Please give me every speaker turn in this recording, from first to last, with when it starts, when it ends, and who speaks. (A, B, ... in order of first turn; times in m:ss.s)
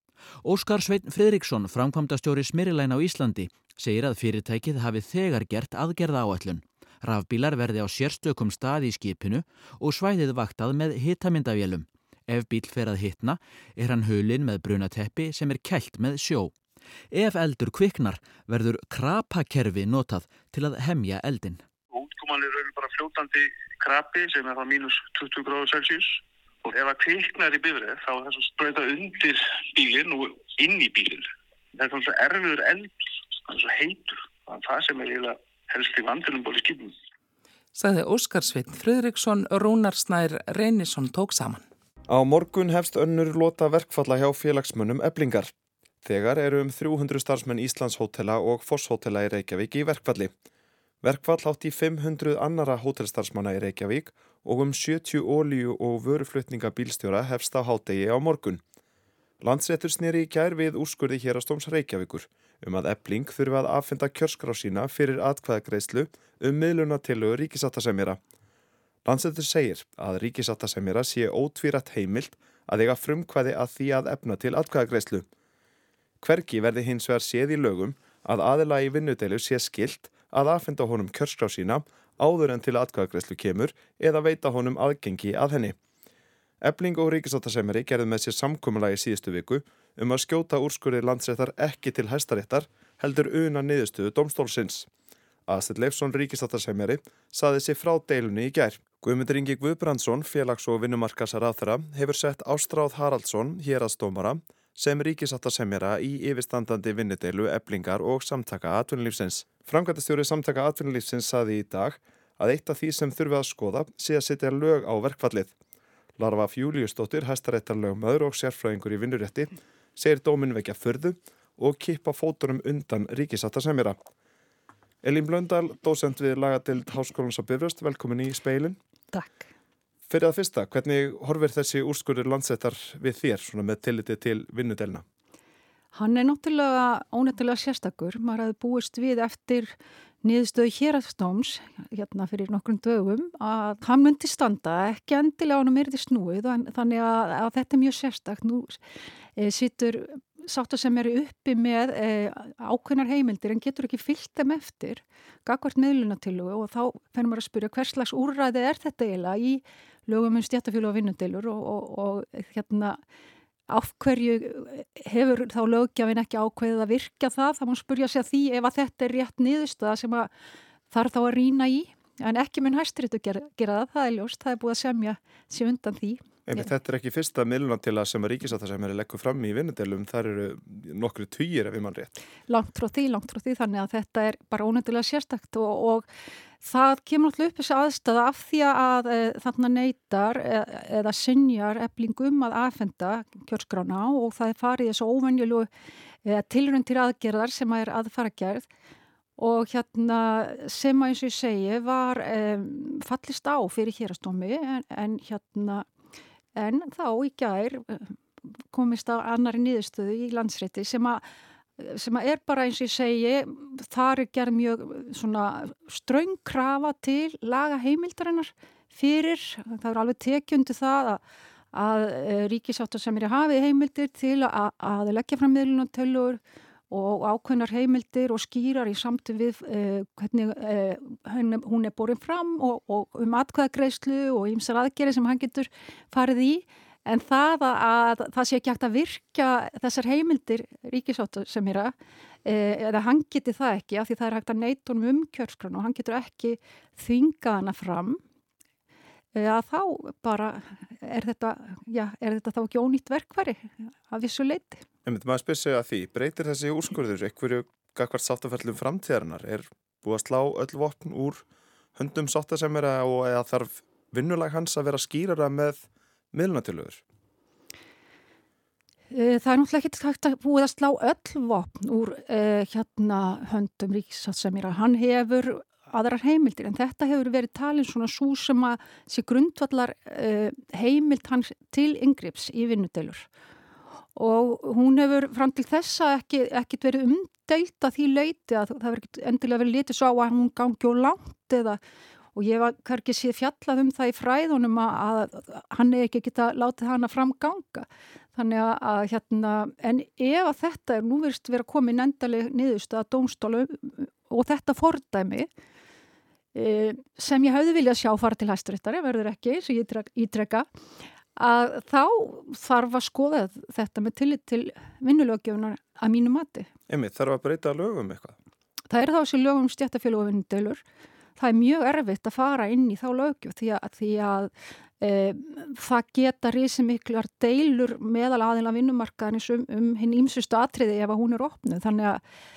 0:00.4-0:16.5 A
0:17.1-0:21.6 A
0:21.9-0:32.9 B
0:33.4-0:37.0 B
0:37.8-0:41.6 C
0:42.1-0:45.5 D
0:46.0-0:50.3 D
0:51.0-0:58.6 D
0:59.4-1:08.2 D
1:09.1-1:15.3 D
1:16.2-1:25.8 D
1:26.6-1:34.9 D
1:35.5-1:55.5 D
1:56.2-2:04.0 D
2:05.0-2:08.8 D
2:09.1-2:09.4 E
2:10.1-2:15.0 D
2:15.9-2:28.8 E
2:29.4-2:43.0 E
2:43.7-2:50.3 E
2:50.9-2:56.7 E
2:56.5-3:02.1 D
3:02.5-3:06.1 E
3:06.6-3:15.7 E
3:16.2-3:18.7 E
3:19.4-3:25.9 E
3:26.6-3:28.2 E
3:28.7-3:31.2 E
3:31.8-3:41.2 E
3:41.7-4:01.9 E
4:02.4-4:08.2 E
4:09.3-4:14.8 E
4:15.1-4:21.4 D
4:22.0-4:27.0 D
4:29.1-4:43.3 E
4:44.2-4:51.8 E
4:52.4-5:05.5 E
5:06.5-5:10.7 E
5:11.4-5:16.7 E
5:16.9-5:18.4 D
5:18.9-5:20.8 E
5:21.4-5:32.2 E